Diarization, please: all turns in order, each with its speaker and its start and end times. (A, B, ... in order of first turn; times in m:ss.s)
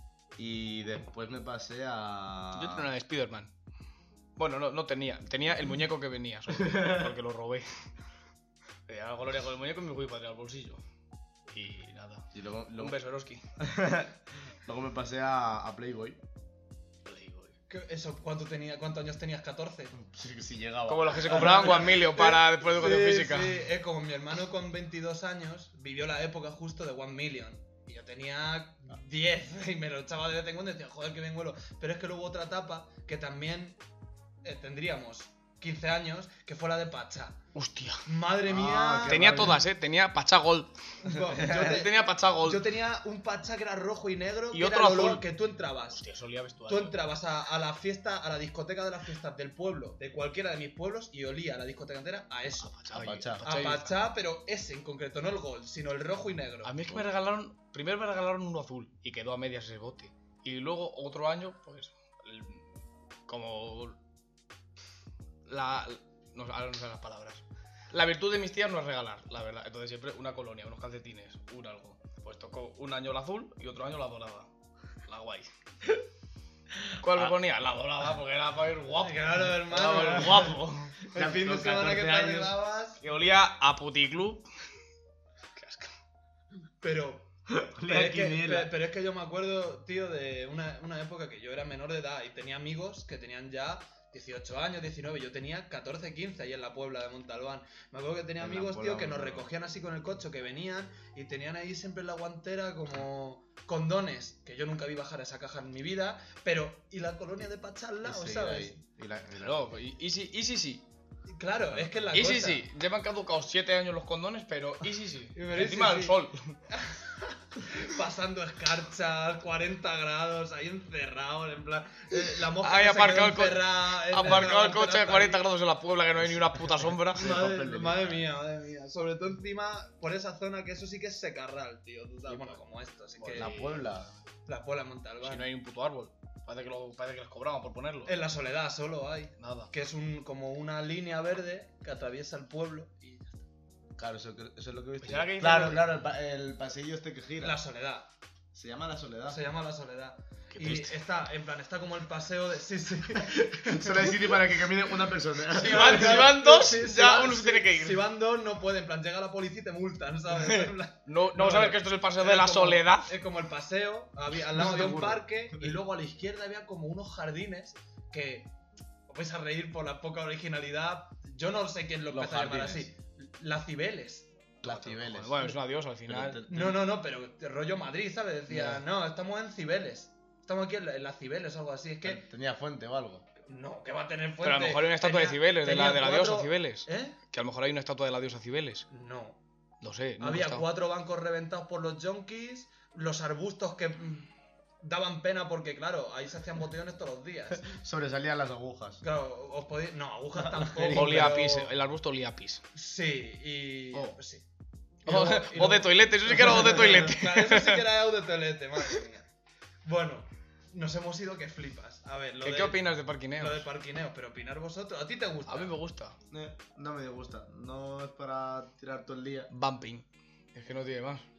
0:00.4-0:02.9 A
0:02.5-0:03.5 B
0:04.4-0:07.7 B
0:06.5-0:07.2 A
0:08.9-0:10.8 B
0:11.5-0:13.4 B
0:12.3-0:13.0 A
0:13.6-0:16.2 A
0:17.1-0:17.5 B
0:17.7-0:19.9 C
0:19.9-0:21.9 A
0:20.9-0:23.7 B
0:21.3-0:33.8 C
0:34.4-0:37.4 C
0:37.6-0:38.0 B
0:38.0-0:39.4 C
0:38.5-0:39.6 A
0:39.1-0:40.7 B
0:41.0-0:46.0 C
0:41.2-0:41.9 A
0:41.3-0:42.6 B
0:44.5-0:45.2 B
0:45.9-0:47.0 B
0:46.7-0:52.7 C
0:52.6-0:54.0 B
0:52.9-0:53.5 A
0:53.4-0:56.7 C
0:56.6-1:02.7 B
1:03.3-1:04.0 B
1:05.5-1:14.5 B
1:15.0-1:15.5 B
1:17.0-1:21.0 B
1:17.0-1:17.4 A
1:19.0-1:20.6 C
1:20.1-1:20.5 A
1:21.1-1:23.0 C
1:21.1-1:22.6 A
1:23.0-1:24.4 B
1:25.6-1:25.9 B
1:26.8-1:27.3 C
1:27.5-1:28.7 A
1:27.8-1:48.8 C
1:38.4-1:39.5 A
1:48.0-1:49.7 A
1:49.4-1:50.8 B
1:51.3-1:52.6 C
1:52.1-1:56.6 B
1:55.3-1:56.2 C
1:56.7-2:05.4 C
2:02.5-2:07.4 B
2:06.3-2:06.6 A
2:07.1-2:08.2 A
2:07.2-2:13.6 C
2:12.3-2:12.6 B
2:13.2-2:14.1 B
2:13.3-2:14.1 A
2:14.5-2:15.4 C
2:15.2-2:18.2 B
2:18.1-2:23.5 C
2:19.4-2:19.7 B
2:24.0-2:27.6 A
2:25.0-2:25.8 B
2:27.4-2:28.1 C
2:28.5-2:29.4 A
2:29.3-2:34.1 C
2:30.5-2:31.0 B
2:33.2-2:36.4 A
2:35.5-2:38.1 B
2:35.6-2:48.5 C
2:40.3-2:43.2 B
2:44.5-2:45.8 A
2:44.7-2:45.0 B
2:49.1-2:54.3 C
2:52.1-2:52.9 A
2:54.6-2:56.4 B
2:54.6-2:55.6 A
2:56.1-2:56.8 A
2:56.5-3:02.2 C
2:58.5-2:58.8 B
3:02.0-3:03.3 A
3:03.5-3:07.2 C
3:04.4-3:08.9 B
3:08.9-3:09.4 C
3:09.8-3:10.7 B
3:10.2-3:14.3 C
3:14.8-3:17.7 C
3:17.6-3:19.0 A
3:19.0-3:21.7 C
3:20.4-3:21.4 A
3:20.9-3:22.6 B
3:22.8-3:24.4 C
3:25.0-3:27.8 B
3:25.0-3:29.3 C
3:26.4-3:27.1 A
3:29.8-3:32.8 C
3:32.4-3:33.7 B
3:33.4-3:35.8 C
3:35.5-3:36.2 B
3:36.3-3:39.5 A
3:39.5-3:41.2 B